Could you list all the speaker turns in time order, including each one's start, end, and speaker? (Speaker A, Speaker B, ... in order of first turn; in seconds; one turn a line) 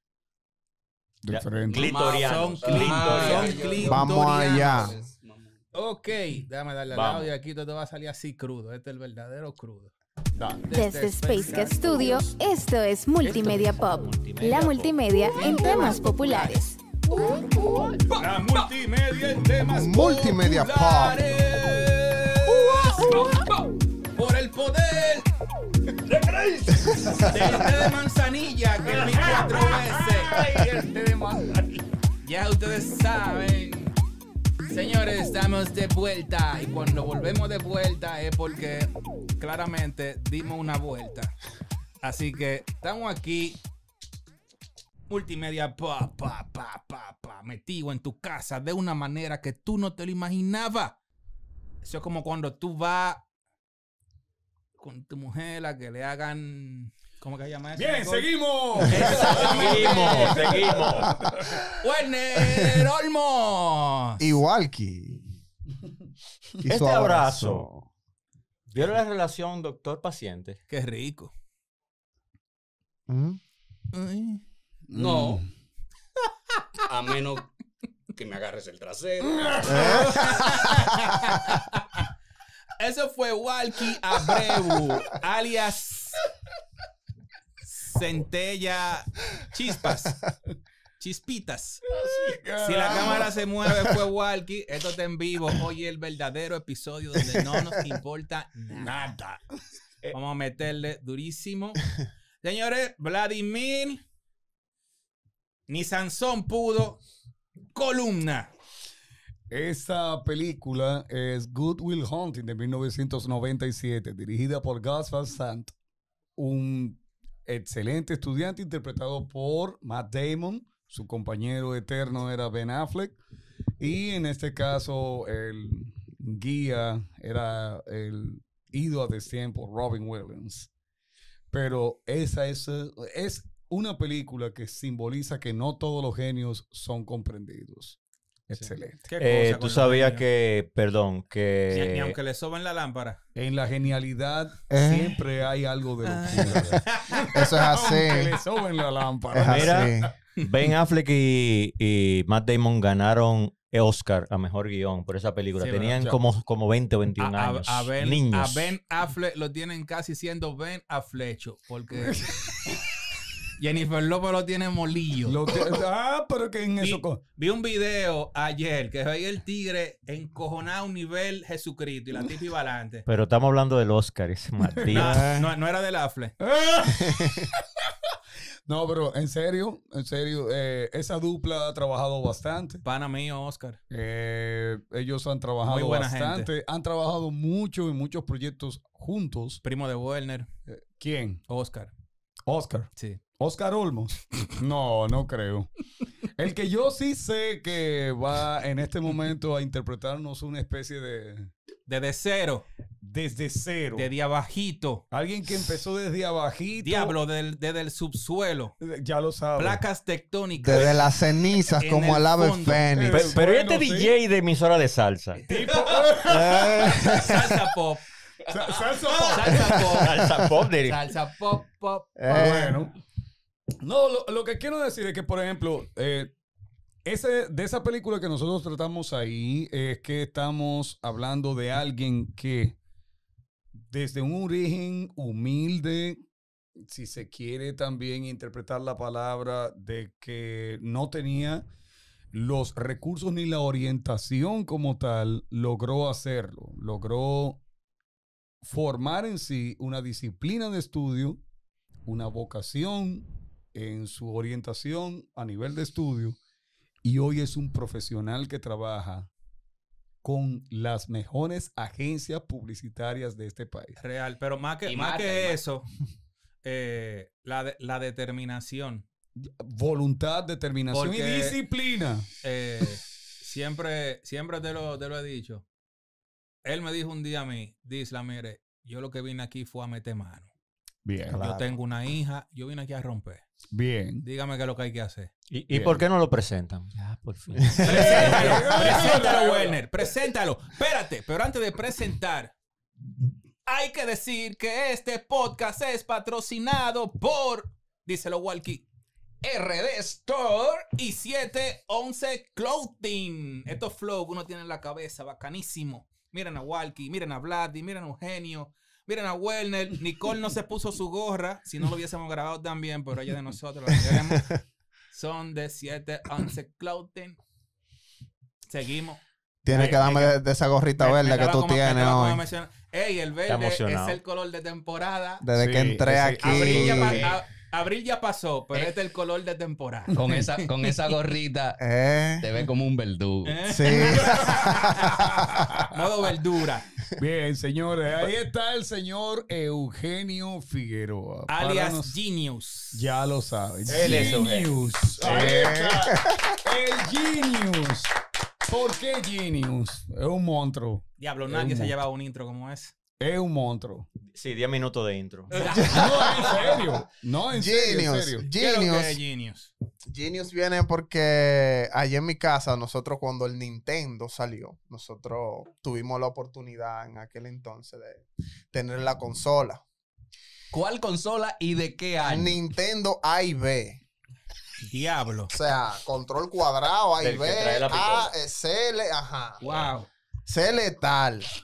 Speaker A: 1.2-2.0
Speaker B: 1.3-3.8
Speaker C: 1.7-5.5
Speaker D: 2.1-5.0
Speaker E: 3.8-4.9
Speaker D: 5.7-9.9
Speaker B: 6.9-7.3
Speaker A: 10.3-10.7
Speaker D: 10.7-12.3
Speaker F: 10.7-17.9
Speaker B: 13.2-15.0
Speaker D: 15.5-16.0
Speaker B: 15.9-16.2
Speaker D: 18.1-23.4
Speaker E: 19.6-21.2
Speaker A: 22.4-23.4
Speaker D: 24.1-25.3
Speaker A: 26.0-27.9
Speaker E: 26.9-27.3
Speaker D: 27.2-30.6
Speaker A: 28.8-31.8
Speaker D: 32.2-33.9
Speaker D: 34.7-41.3
Speaker D: 42.0-43.6
Speaker D: 45.1-51.0
Speaker D: 51.8-53.2
Speaker D: 54.8-60.8
Speaker A: 57.7-61.6
Speaker B: 59.2-61.1
Speaker D: 61.8-64.2
Speaker E: 64.2-65.3
Speaker E: 66.6-67.9
Speaker B: 66.7-67.7
Speaker B: 68.7-70.6
Speaker D: 70.7-71.3
Speaker E: 73.1-73.4
Speaker D: 73.9-74.4
Speaker A: 74.9-75.5
Speaker C: 74.9-75.4
Speaker C: 76.9-77.5
Speaker C: 78.1-79.6
Speaker A: 79.2-80.4
Speaker E: 79.7-81.1
Speaker D: 79.8-81.5
Speaker D: 82.8-86.3
Speaker D: 87.6-90.2
Speaker D: 91.0-91.9
Speaker A: 92.0-93.3
Speaker D: 92.6-99.1
Speaker E: 97.3-97.7
Speaker A: 98.7-99.5
Speaker D: 100.1-101.9
Speaker D: 102.4-104.0
Speaker D: 105.7-107.0
Speaker D: 107.7-108.5
Speaker A: 109.5-115.7
Speaker A: 116.4-123.2
Speaker A: 123.8-130.7
Speaker A: 131.5-139.0
Speaker D: 139.0-140.2
Speaker B: 139.2-142.2
Speaker D: 141.7-143.2
Speaker A: 143.3-150.1
Speaker E: 144.7-145.2
Speaker D: 146.0-147.3
Speaker E: 146.5-146.8
Speaker E: 147.3-148.3
Speaker E: 149.3-150.1
Speaker B: 149.4-158.7
Speaker D: 155.6-156.0
Speaker D: 157.2-162.2
Speaker A: 162.0-162.8
Speaker D: 163.6-165.5
Speaker A: 165.2-167.2
Speaker D: 166.8-173.0
Speaker B: 173.1-175.2
Speaker A: 174.7-175.0
Speaker D: 174.9-176.3
Speaker E: 174.9-175.5
Speaker A: 176.4-177.9
Speaker E: 177.1-177.5
Speaker A: 178.7-182.8
Speaker D: 182.8-183.8
Speaker A: 183.9-189.6
Speaker D: 185.7-186.5
Speaker D: 189.6-190.5
Speaker A: 190.7-191.4
Speaker D: 191.5-191.9
Speaker A: 192.5-195.7
Speaker A: 196.3-201.5
Speaker D: 201.9-202.6
Speaker A: 203.0-204.1
Speaker D: 203.9-205.0
Speaker A: 205.1-207.2
Speaker D: 206.8-208.7
Speaker A: 208.8-209.8
Speaker D: 209.6-211.1
Speaker E: 210.6-213.4
Speaker D: 211.8-212.8
Speaker A: 212.9-214.1
Speaker B: 213.1-215.4
Speaker A: 215.5-217.6
Speaker B: 216.3-216.8
Speaker D: 217.2-218.0
Speaker A: 218.5-220.3
Speaker D: 219.2-222.5
Speaker B: 219.9-221.1
Speaker E: 222.2-222.8
Speaker A: 222.3-222.9
Speaker A: 223.8-226.3
Speaker A: 227.0-232.8
Speaker A: 233.8-236.2
Speaker A: 236.8-241.7
Speaker A: 242.3-247.6
Speaker A: 248.6-251.4
Speaker A: 252.1-256.4
Speaker A: 257.0-259.3
Speaker A: 260.2-264.0
Speaker D: 264.0-265.9
Speaker C: 264.8-265.6
Speaker D: 266.6-269.1
Speaker A: 269.4-272.3
Speaker D: 270.9-271.6
Speaker D: 272.4-275.6
Speaker D: 276.6-280.5
Speaker A: 281.0-281.4
Speaker E: 281.3-281.8
Speaker D: 281.3-283.4
Speaker A: 283.7-284.2
Speaker D: 284.2-285.3
Speaker B: 285.5-288.7
Speaker A: 285.7-286.0
Speaker E: 287.6-288.6
Speaker D: 287.8-292.5
Speaker A: 287.8-289.8
Speaker D: 293.6-298.9
Speaker C: 299.4-300.9
Speaker D: 300.9-314.6
Speaker E: 313.9-314.6
Speaker D: 315.1-317.4
Speaker D: 318.7-320.4
Speaker E: 319.6-322.4
Speaker D: 321.0-325.4
Speaker B: 323.5-324.2
Speaker E: 325.4-327.3
Speaker A: 325.6-327.3
Speaker D: 326.4-330.3
Speaker C: 330.1-331.8
Speaker E: 331.8-332.4
Speaker C: 332.4-333.6
Speaker D: 333.4-335.2
Speaker E: 333.7-335.4
Speaker A: 334.2-335.9
Speaker D: 335.9-336.9
Speaker A: 337.2-342.2
Speaker D: 341.5-343.0
Speaker A: 342.9-348.1
Speaker B: 343.9-345.5
Speaker D: 344.0-344.4
Speaker E: 345.2-346.6
Speaker A: 348.6-352.0
Speaker D: 351.2-352.9
Speaker A: 353.2-354.1
Speaker B: 354.2-355.6
Speaker C: 355.5-356.6
Speaker E: 355.7-356.9
Speaker A: 355.9-358.5
Speaker E: 357.5-359.2
Speaker D: 358.6-359.7
Speaker E: 360.1-369.8
Speaker C: 370.7-372.6
Speaker E: 372.2-374.0
Speaker D: 374.8-375.5
Speaker E: 375.5-379.6
Speaker B: 377.2-378.3
Speaker D: 379.6-380.1
Speaker E: 380.5-381.5